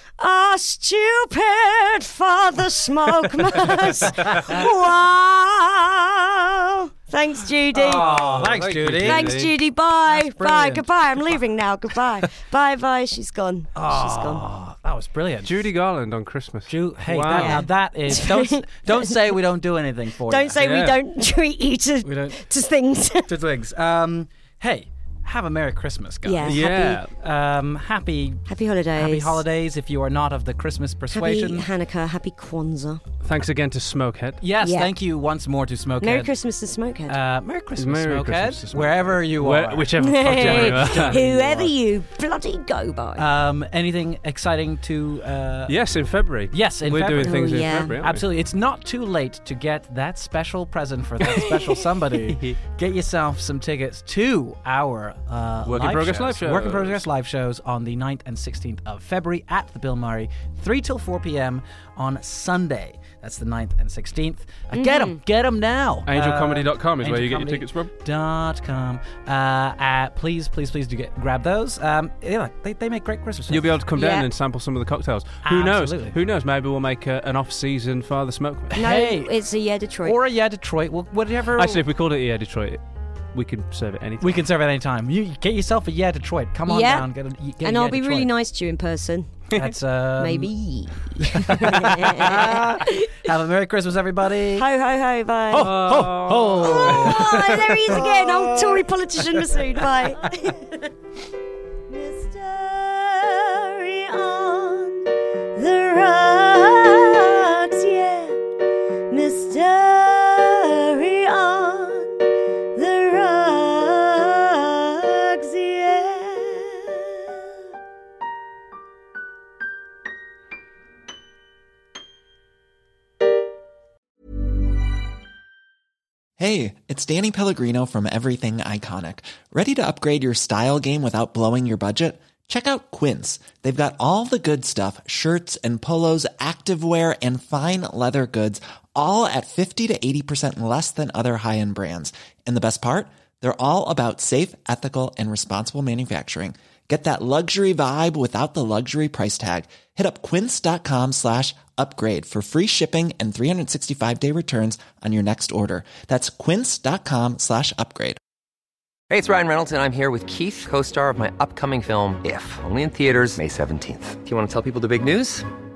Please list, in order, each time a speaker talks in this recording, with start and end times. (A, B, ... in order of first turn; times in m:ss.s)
0:00.2-0:08.2 A
0:03.5-0:04.6 B
0:07.7-0:09.4 B
0:07.8-0:09.5 C
0:09.0-0:14.4 A
0:10.1-0:10.9 B
0:13.7-0:15.7 B
0:15.4-0:17.7 C
0:16.7-0:20.6 B
0:17.3-0:19.3 A
0:20.3-0:23.3 A
0:20.6-0:21.0 C
0:22.0-0:22.4 B
0:23.2-0:31.7 B
0:26.2-0:27.0 A
0:26.4-0:27.1 C
0:28.5-0:29.4 A
0:31.1-0:33.0 A
0:33.2-0:34.4 C
0:34.4-0:36.3 B
0:34.6-0:34.9 A
0:36.0-0:37.2 A
0:37.1-0:41.7 B
0:37.8-0:41.2 C
0:40.0-0:43.2 A
0:43.2-0:45.8 B
0:45.7-0:48.2 C
0:46.5-1:13.8 B
0:47.2-0:47.9 A
0:52.2-0:52.6 C
0:55.6-0:57.0 C
1:04.7-1:05.2 A
1:06.1-1:07.9 C
1:13.5-1:18.7 C
1:13.9-1:14.3 A
1:15.4-1:16.2 B
1:18.7-1:19.3 B
1:18.7-1:20.2 A
1:20.0-1:21.8 B
1:21.5-1:24.4 C
1:24.2-1:28.3 B
1:26.7-1:27.1 A
1:27.6-1:29.3 A
1:29.6-1:30.5 B
1:30.2-1:33.3 A
1:31.3-1:34.6 B
1:34.5-1:35.8 A
1:35.5-1:38.8 B
1:35.5-1:37.7 C
1:36.6-1:40.9 A
1:41.9-1:45.0 A
1:45.5-1:48.4 A
1:49.1-1:52.2 A
1:52.7-1:57.0 A
2:06.4-2:38.2 D
2:39.1-2:45.5 E